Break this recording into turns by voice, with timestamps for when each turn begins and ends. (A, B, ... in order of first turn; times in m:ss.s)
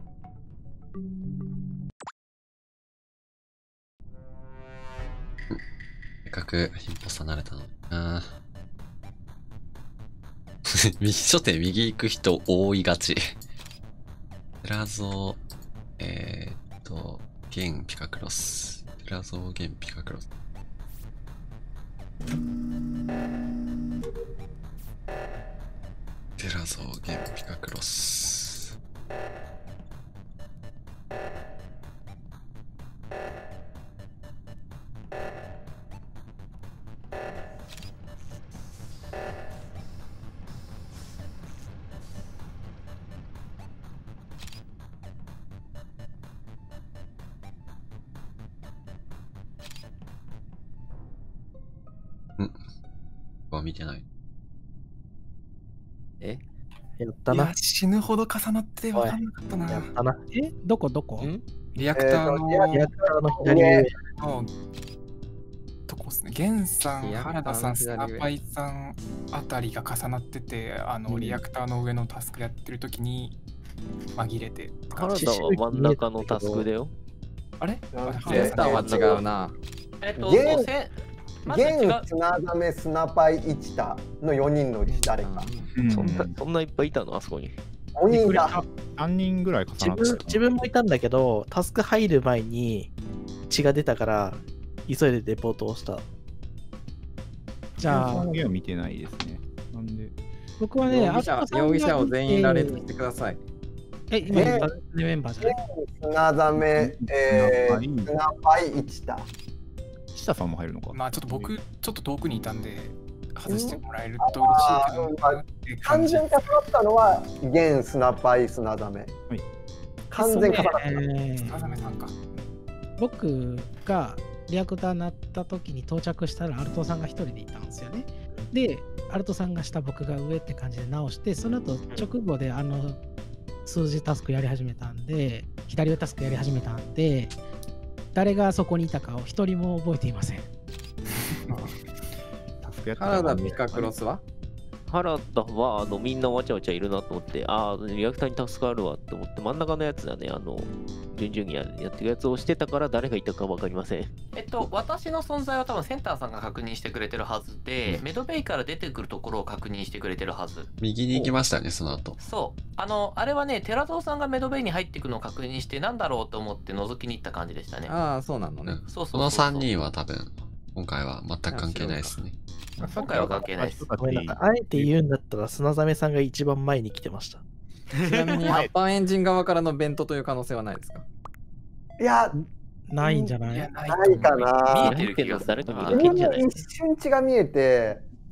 0:06.2-0:08.3 A
0:10.8-0:13.2 A
0:14.6-0:15.4 A
0:16.0-0:20.2 A
0:26.4-0:28.7 A
0:53.5-0:54.0 A
0:57.0-0:57.5 B
0:57.3-0:59.9 C
0:58.9-1:00.2 B
1:00.3-1:01.3 D
1:01.7-1:02.9 C
1:01.9-1:02.7 E
1:02.7-1:04.0 B
1:03.4-1:03.9 E
1:04.2-1:04.5 C
1:05.9-1:13.4 C
1:06.9-1:08.3 F
1:11.1-1:11.4 B
1:14.2-1:15.1 C
1:14.9-1:16.9 G
1:15.1-1:16.7 B
1:17.6-1:19.2 C
1:17.9-1:19.2 E
1:18.2-1:19.5 F
1:18.3-1:19.1 G
1:20.0-1:20.9 H
1:20.2-1:20.7 E
1:21.4-1:22.1 H
1:21.4-1:25.5 E
1:24.9-1:25.7 F
1:25.7-1:26.3 I
1:25.8-1:27.6 G
1:28.0-1:28.6 E
1:28.1-1:28.6 D
1:28.9-1:30.5 I
1:29.8-1:32.9 B
1:33.5-1:36.0 B
1:37.8-1:38.3 D
1:37.8-1:40.1 I
1:40.6-1:42.8 D
1:40.8-1:43.4 F
1:44.1-1:45.6 D
1:44.3-1:44.7 E
1:45.4-1:49.3 E
1:46.6-1:48.1 I
1:50.1-1:51.5 I
1:50.9-1:56.5 C
1:53.5-1:59.1 E
2:00.1-2:01.9 D
2:00.1-2:01.0 E
2:01.4-2:02.5 C
2:03.0-2:13.0 D
2:13.6-2:17.4 D
2:18.1-2:20.5 D
2:22.6-2:23.9 I
2:23.0-2:24.2 F
2:24.9-2:34.1 G
2:34.3-2:40.7 H
2:40.8-2:42.2 A
2:42.2-2:47.9 H
2:47.9-2:48.8 F
2:48.7-2:52.4 A
2:48.8-2:49.7 H
2:51.5-2:52.2 F
2:52.8-2:54.9 I
2:52.8-2:53.9 H
2:54.0-2:57.4 B
2:58.0-3:01.0 F
3:02.0-3:02.3 E
3:02.3-3:03.7 D
3:03.5-3:06.6 H
3:03.9-3:05.0 E
3:04.8-3:06.5 G
3:05.9-3:08.0 E